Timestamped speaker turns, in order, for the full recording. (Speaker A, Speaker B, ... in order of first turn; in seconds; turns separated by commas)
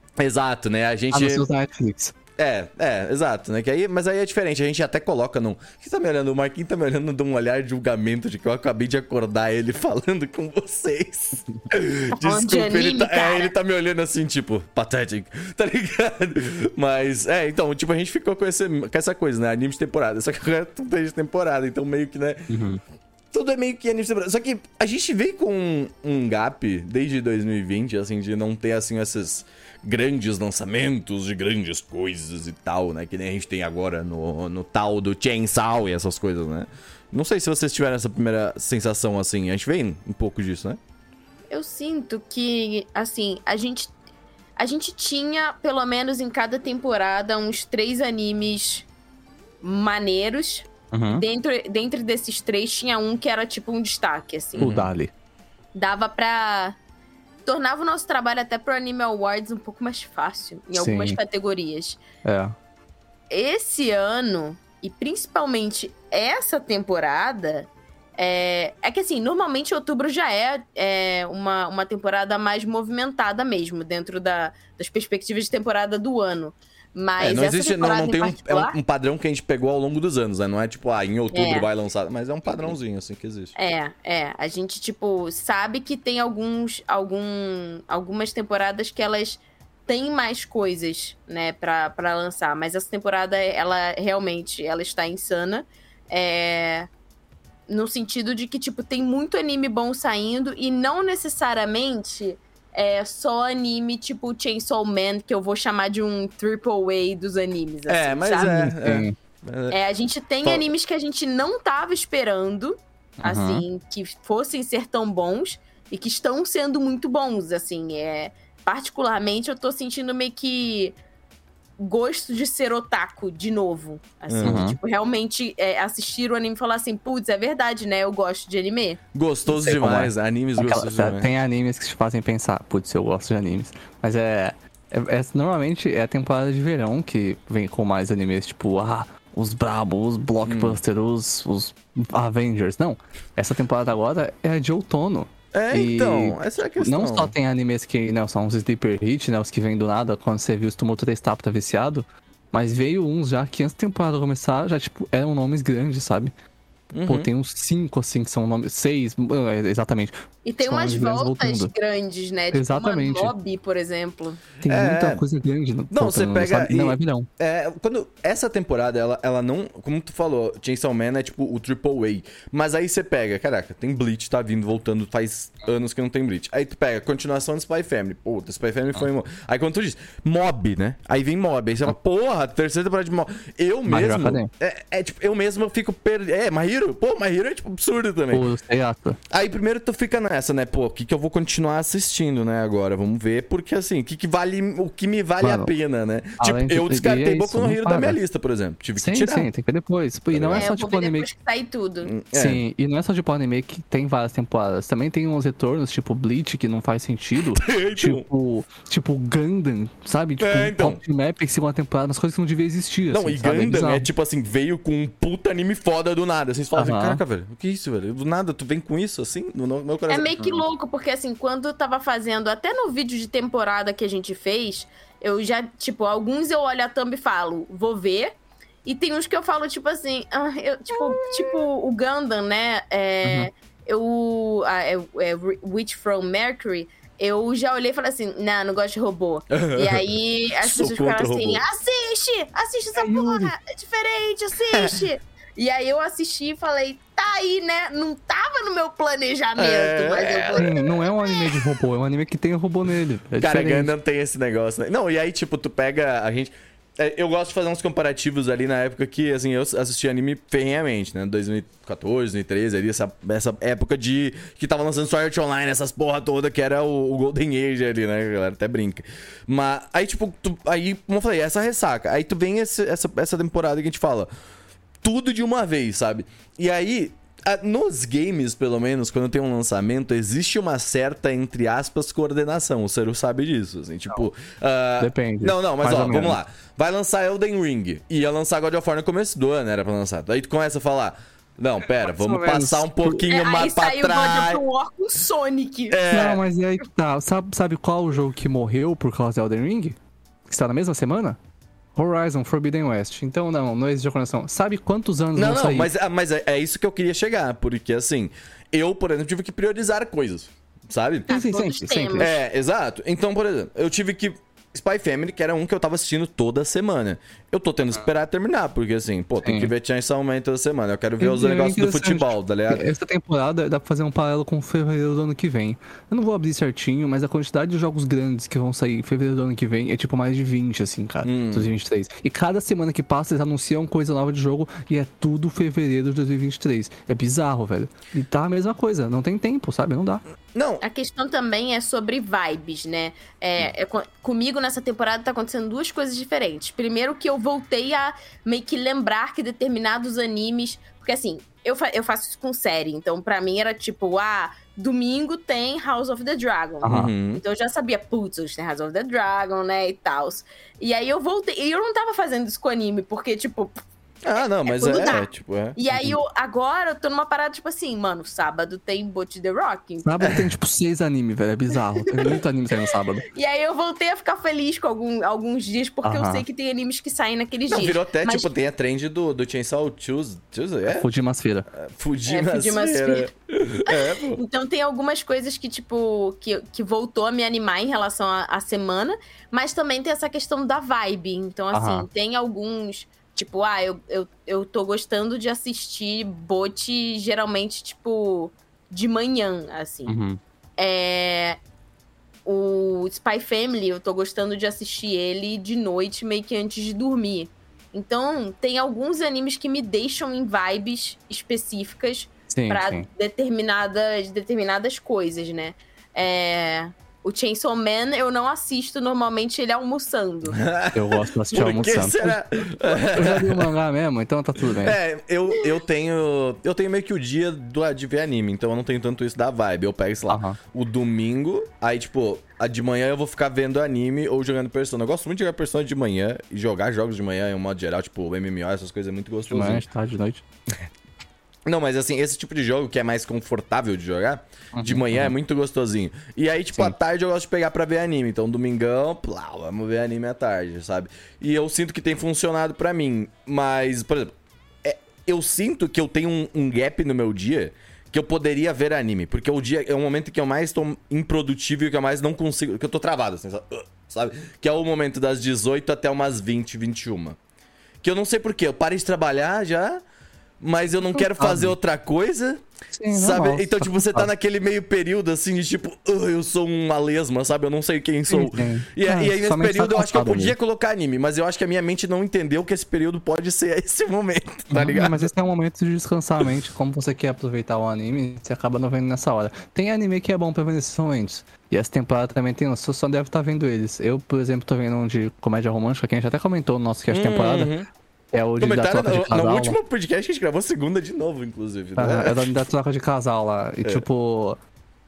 Speaker A: 0.2-1.4, Speaker B: 1.1-2.1, Speaker A: 2.4-22.5, Speaker C: 12.2-13.5, Speaker B: 22.5-22.8, Speaker A: 23.3-40.8, Speaker C: 41.5-43.9, Speaker C: 44.6-48.9, Speaker C: 49.6-54.7, Speaker B: 50.9-51.2, Speaker A: 54.5-54.9, Speaker B: 54.6-55.1, Speaker C: 55.7-56.8, Speaker C: 57.5-62.0, Speaker B: 60.7-61.2, Speaker B: 62.2-62.5, Speaker C: 63.3-78.7, Speaker A: 77.2-83.5, Speaker C: 81.3-81.7, Speaker C: 83.5-96.9, Speaker C: 97.7-108.6, Speaker A: 107.9-109.8, Speaker B: 108.4-109.1, Speaker C: 109.7-121.0, Speaker B: 113.2-113.6, Speaker C: 121.8-129.0, Speaker A: 124.3-124.7, Speaker B: 124.4-124.8, Speaker A: 129.1-131.3, Speaker B: 129.5-156.3, Speaker A: 140.4-140.8, Speaker A: 145.5-147.3, Speaker A: 156.9-157.3, Speaker B: 157.0-161.7, Speaker C: 160.4-164.4, Speaker B: 162.5-163.3, Speaker B: 164.6-167.3, Speaker A: 164.7-165.2, Speaker A: 165.9-188.5, Speaker B: 183.9-184.5, Speaker B: 188.3-189.2, Speaker A: 189.3-199.5, Speaker B: 195.4-195.7, Speaker B: 196.4-198.2, Speaker B: 198.9-201.3, Speaker A: 200.3-200.7, Speaker C: 200.5-202.1, Speaker A: 202.0-202.6, Speaker B: 202.3-214.1, Speaker A: 207.5-208.2, Speaker A: 210.4-211.0, Speaker A: 213.1-220.7, Speaker B: 216.8-217.2, Speaker C: 220.1-228.3, Speaker C: 228.8-251.7, Speaker A: 231.0-231.6, Speaker A: 239.5-240.1, Speaker A: 240.6-241.6, Speaker B: 243.0-243.5, Speaker A: 244.7-245.0, Speaker A: 249.6-250.7, Speaker B: 250.6-253.9, Speaker A: 253.4-274.3, Speaker A: 275.0-294.6, Speaker B: 285.0-286.4, Speaker B: 292.0-293.3, Speaker C: 293.3-296.0, Speaker A: 295.9-296.4, Speaker B: 296.1-300.0, Speaker B: 300.5-301.4, Speaker B: 301.9-305.9, Speaker A: 305.4-311.3, Speaker B: 311.3-312.3, Speaker C: 311.3-312.4, Speaker A: 312.2-322.9, Speaker B: 319.4-319.7, Speaker B: 321.2-340.2, Speaker A: 331.2-331.7, Speaker A: 340.5-340.8, Speaker C: 340.8-363.8, Speaker B: 356.8-357.1, Speaker A: 356.9-357.4, Speaker A: 364.2-365.8, Speaker C: 364.3-370.1, Speaker B: 365.9-366.2, Speaker B: 370.0-373.2, Speaker A: 370.2-370.5, Speaker C: 373.3-378.5, Speaker B: 376.0-376.4, Speaker A: 377.7-381.1, Speaker B: 380.9-381.7, Speaker A: 381.7-384.4, Speaker C: 382.3-383.3, Speaker C: 383.9-400.1, Speaker B: 391.7-392.1, Speaker B: 400.1-400.4, Speaker C: 400.8-401.6, Speaker C: 402.4-420.6, Speaker B: 412.5-413.1, Speaker A: 420.5-423.7, Speaker B: 420.9-422.4, Speaker B: 422.9-425.0, Speaker A: 424.7-439.9, Speaker B: 430.3-430.6, Speaker B: 439.5-440.4, Speaker A: 441.6-467.4, Speaker B: 444.7-445.3, Speaker A: 468.0-470.0, Speaker A: 470.6-485.3, Speaker B: 471.1-471.7, Speaker B: 472.9-474.3, Speaker B: 478.3-480.5, Speaker B: 484.7-497.7, Speaker A: 497.1-497.9, Speaker B: 498.3-499.8, Speaker A: 498.6-502.5, Speaker B: 502.0-504.6